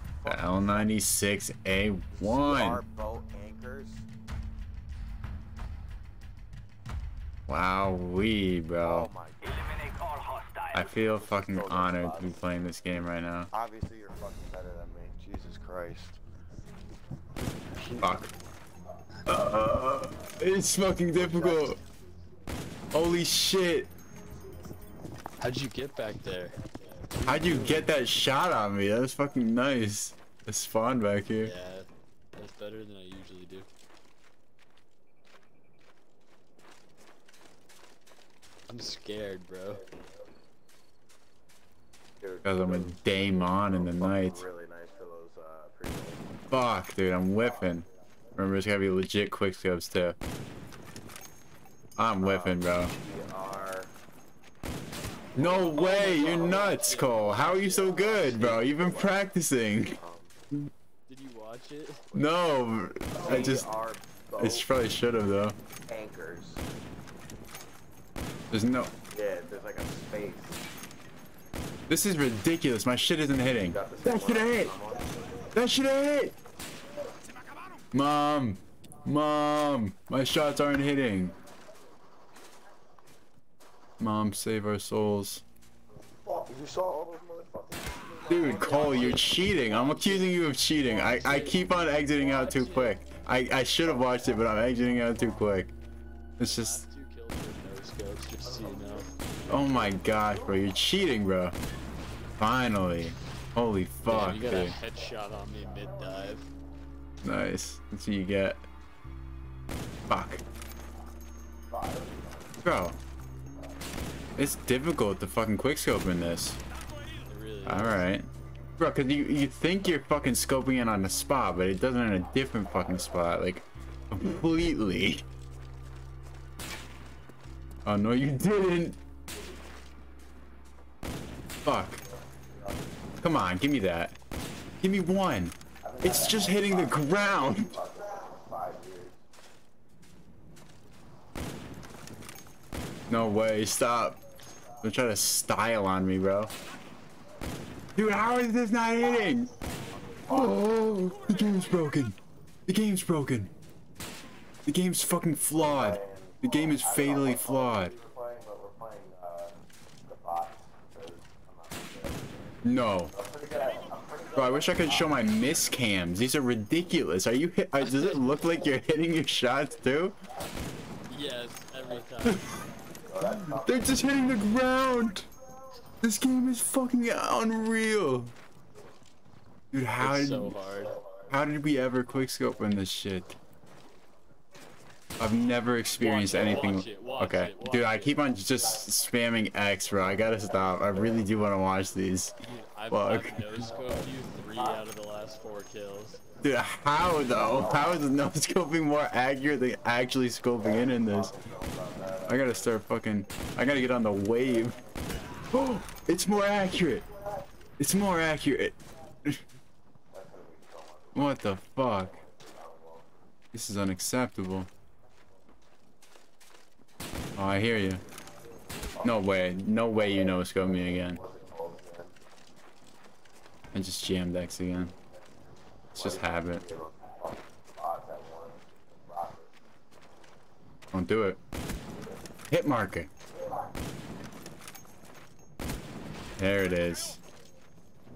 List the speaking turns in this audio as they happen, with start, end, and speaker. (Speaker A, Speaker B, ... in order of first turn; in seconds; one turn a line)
Speaker A: 0.2-0.9
Speaker B: 0.2-2.8
Speaker A: 2.1-4.1
Speaker B: 7.5-9.1
Speaker A: 8.8-9.8
Speaker B: 10.7-13.5
Speaker A: 11.2-12.4
Speaker A: 13.5-16.2
Speaker B: 18.0-18.3
Speaker B: 19.3-21.8
Speaker A: 21.2-21.7
Speaker B: 22.9-23.9
Speaker C: 25.4-26.6
Speaker C: 27.1-27.9
Speaker B: 27.2-31.5
Speaker C: 31.4-33.7
Speaker C: 38.7-39.8
Speaker A: 42.2-46.3
Speaker B: 42.4-44.4
Speaker B: 46.5-50.1
Speaker B: 52.0-52.9
Speaker A: 52.2-53.9
Speaker B: 55.3-60.0
Speaker A: 55.4-56.8
Speaker C: 55.7-58.6
Speaker A: 58.1-59.2
Speaker A: 59.9-60.3
Speaker C: 61.1-62.0
Speaker B: 62.1-63.7
Speaker A: 63.1-64.7
Speaker B: 64.4-65.5
Speaker A: 65.8-66.6
Speaker B: 68.5-68.9
Speaker A: 69.1-70.6
Speaker B: 71.9-74.7
Speaker A: 73.7-75.4
Speaker B: 75.5-76.3
Speaker B: 77.9-81.3
Speaker B: 84.0-85.4
Speaker A: 86.2-90.3
Speaker B: 88.2-95.7
Speaker C: 88.7-89.3
Speaker C: 90.9-93.0
Speaker B: 96.4-96.8
Speaker C: 96.4-99.1
Speaker A: 98.6-100.2
Speaker B: 99.5-101.5
Speaker B: 102.4-104.8
Speaker C: 104.0-106.5
Speaker B: 107.2-108.6
Speaker B: 110.1-110.4
Speaker A: 111.7-112.6
Speaker B: 112.6-113.0
Speaker B: 114.3-116.6
Speaker C: 117.3-118.0
Speaker B: 117.6-125.2
Speaker B: 127.8-129.0
Speaker B: 131.6-132.0
Speaker A: 132.2-132.9
Speaker B: 133.2-134.2
Speaker B: 134.8-137.7
Speaker A: 135.8-139.2
Speaker B: 143.1-144.2
Speaker B: 144.8-146.5
Speaker B: 147.9-149.5
Speaker A: 150.1-151.7
Speaker B: 150.3-152.2
Speaker B: 152.7-153.5
Speaker B: 154.7-157.9
Speaker A: 155.5-165.3
Speaker B: 162.6-163.1
Speaker B: 164.3-170.2
Speaker C: 167.8-168.4
Speaker C: 171.1-172.4
Speaker B: 172.2-172.5
Speaker A: 173.0-174.1
Speaker B: 173.2-175.3
Speaker B: 176.0-178.3
Speaker B: 179.7-180.6
Speaker C: 180.0-181.0
Speaker B: 181.3-183.3
Speaker B: 185.2-192.3
Speaker C: 186.0-188.3
Speaker C: 192.4-196.2
Speaker B: 192.9-193.6
Speaker B: 196.4-201.3
Speaker A: 200.8-202.4
Speaker B: 202.2-204.8
Speaker B: 205.5-207.1
Speaker B: 207.8-209.4
Speaker A: 210.1-213.2
Speaker B: 211.1-212.2
Speaker B: 213.5-214.7
Speaker B: 217.4-218.0
Speaker B: 219.0-221.2
Speaker A: 221.0-222.1
Speaker B: 223.7-224.9
Speaker A: 225.9-229.5
Speaker B: 225.9-226.6
Speaker B: 230.9-231.4
Speaker B: 232.5-233.1
Speaker B: 236.4-237.2